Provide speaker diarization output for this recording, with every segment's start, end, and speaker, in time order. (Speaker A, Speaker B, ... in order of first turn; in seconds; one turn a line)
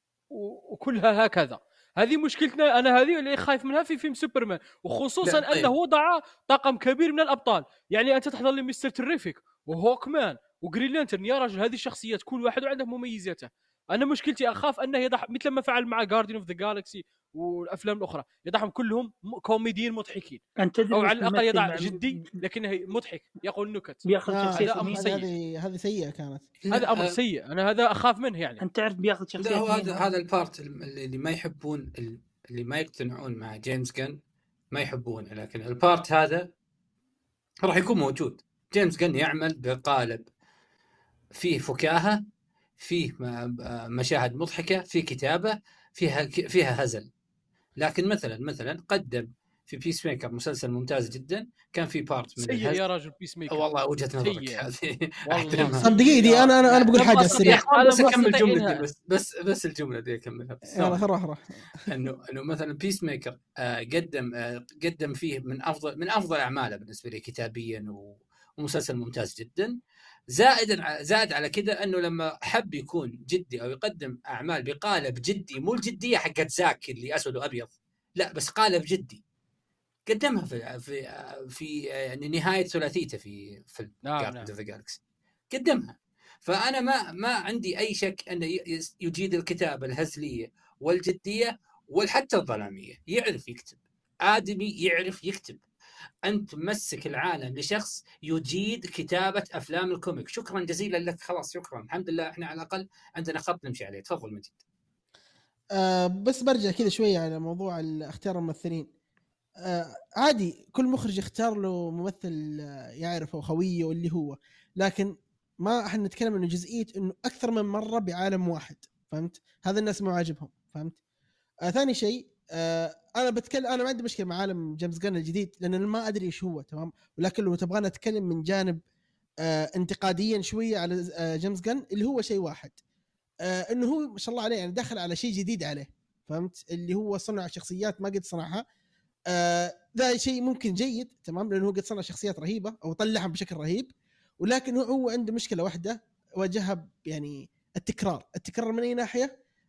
Speaker A: 0.3-25.3
Speaker B: 5.2-5.7
Speaker C: 20.6-22.4
Speaker C: 24.1-25.1
Speaker D: 24.3-26.5
Speaker B: 26.6-27.2
Speaker A: 26.7-28.6
Speaker C: 28.6-30.0
Speaker B: 29.4-34.2
Speaker B: 34.7-36.5
Speaker B: 37.6-40.2
Speaker B: 41.4-42.2
Speaker B: 42.8-47.1
Speaker B: 47.8-52.8
Speaker A: 52.4-53.6
Speaker B: 53.5-61.0
Speaker A: 54.2-54.7
Speaker A: 55.3-58.8
Speaker D: 55.6-57.6
Speaker D: 60.8-61.6
Speaker B: 61.9-69.8
Speaker B: 70.3-79.2
Speaker B: 80.1-85.0
Speaker A: 84.0-84.5
Speaker B: 85.5-95.6
Speaker B: 96.3-104.5
Speaker D: 105.8-108.9
Speaker D: 109.6-121.0
Speaker D: 121.7-128.8
Speaker D: 129.4-132.8
Speaker D: 133.4-138.7
Speaker D: 139.3-143.9
Speaker D: 144.4-149.3